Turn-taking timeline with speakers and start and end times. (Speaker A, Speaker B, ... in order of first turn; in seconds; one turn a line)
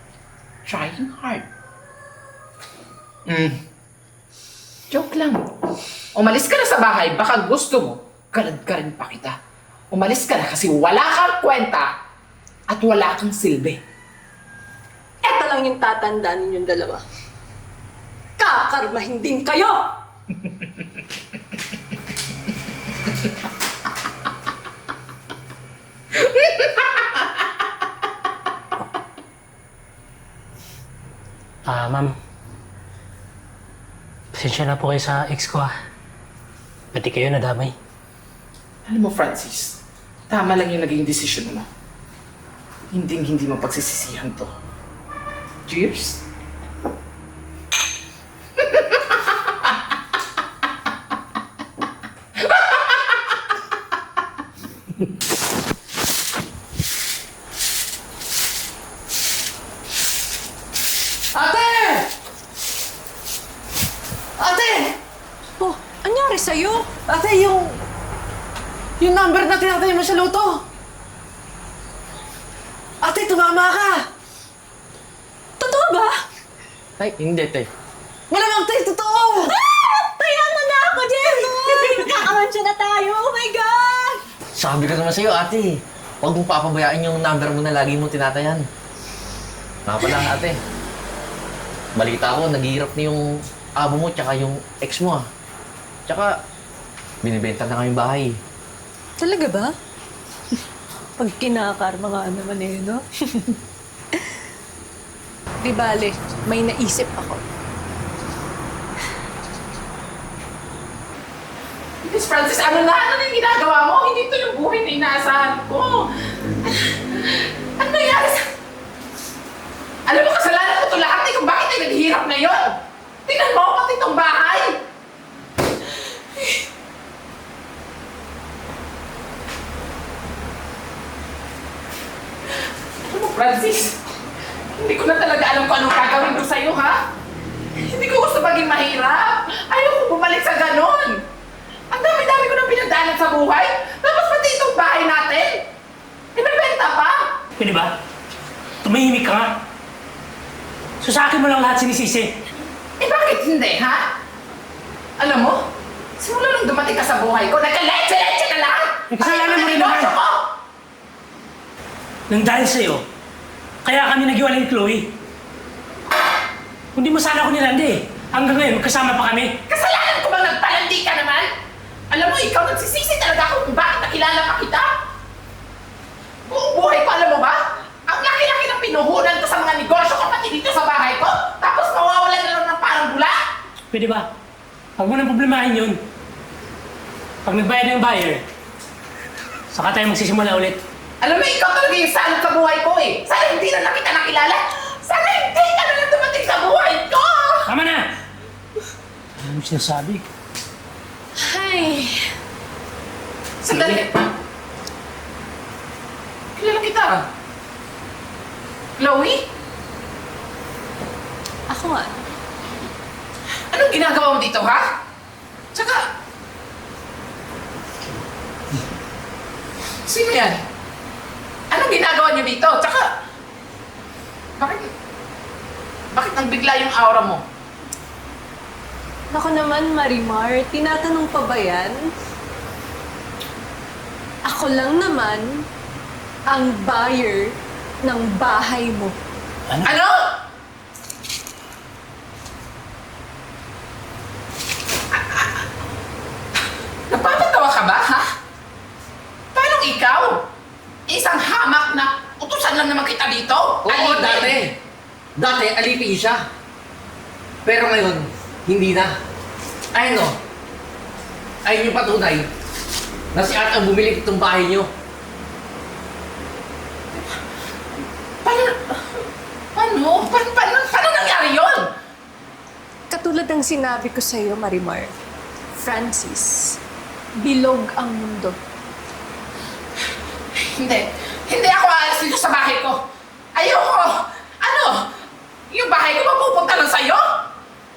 Speaker A: 0.7-1.4
Speaker A: 3.3-3.6
Speaker A: 4.9-5.4
Speaker A: 6.2-9.3
Speaker A: 9.9-11.9
Speaker A: 12.7-13.8
Speaker B: 15.2-17.0
Speaker B: 18.4-19.8
Speaker A: 26.2-27.2
Speaker C: 31.7-32.1
Speaker C: 34.3-35.7
Speaker C: 36.9-37.7
Speaker A: 38.9-39.8
Speaker A: 40.3-41.7
Speaker A: 42.9-44.5
Speaker A: 45.7-46.2
Speaker A: 48.6-49.0
Speaker A: 52.5-53.2
Speaker D: 61.3-62.1
Speaker D: 64.4-65.0
Speaker B: 65.6-66.9
Speaker D: 67.1-67.8
Speaker D: 69.0-70.6
Speaker D: 73.0-74.1
Speaker B: 75.6-76.2
Speaker D: 77.0-77.7
Speaker D: 78.3-79.5
Speaker B: 79.5-84.2
Speaker D: 81.7-82.3
Speaker D: 84.5-88.7
Speaker D: 89.9-90.6
Speaker D: 92.0-93.2
Speaker D: 93.8-95.2
Speaker D: 97.2-98.4
Speaker B: 99.2-99.7
Speaker B: 101.2-103.5
Speaker B: 105.6-107.4
Speaker A: 112.0-118.4
Speaker A: 120.1-124.7
Speaker A: 133.1-134.0
Speaker A: 134.8-137.0
Speaker A: 137.8-141.2
Speaker A: 141.9-145.6
Speaker A: 146.3-147.2
Speaker C: 147.6-147.9
Speaker C: 148.8-149.5
Speaker C: 151.0-152.3
Speaker A: 153.0-154.0
Speaker A: 155.2-155.6
Speaker A: 156.2-160.4
Speaker C: 159.1-160.1
Speaker C: 162.3-163.0
Speaker C: 163.8-165.1
Speaker C: 166.9-169.5
Speaker A: 169.7-171.5
Speaker A: 172.1-174.9
Speaker A: 176.5-183.4
Speaker C: 183.9-184.3
Speaker C: 185.0-186.0
Speaker C: 187.4-188.4
Speaker C: 189.7-190.8
Speaker A: 191.2-197.7
Speaker C: 197.7-198.0
Speaker C: 199.4-200.2
Speaker B: 201.4-202.3
Speaker A: 203.6-204.3
Speaker C: 203.7-204.0
Speaker A: 206.6-207.2
Speaker A: 209.0-209.4
Speaker B: 211.7-212.2
Speaker A: 213.7-214.8
Speaker A: 215.7-216.0
Speaker A: 220.1-220.6
Speaker A: 221.7-223.1
Speaker A: 224.6-224.9
Speaker A: 226.1-227.4
Speaker B: 229.3-232.1
Speaker B: 234.5-235.7
Speaker B: 236.5-239.2
Speaker A: 239.8-240.2
Speaker A: 245.1-245.6
Speaker A: 247.1-248.2
Speaker A: 249.6-250.3
Speaker A: 251.1-254.7
Speaker D: 253.8-254.7
Speaker D: 255.4-256.4
Speaker D: 257.6-259.1
Speaker D: 259.9-260.4
Speaker D: 261.6-262.5
Speaker D: 263.3-264.9
Speaker A: 268.4-269.2
Speaker A: 269.8-271.9
Speaker B: 273.1-275.1
Speaker B: 275.8-276.8
Speaker B: 277.4-278.6
Speaker A: 280.6-283.0
Speaker A: 283.6-285.0
Speaker A: 285.7-287.2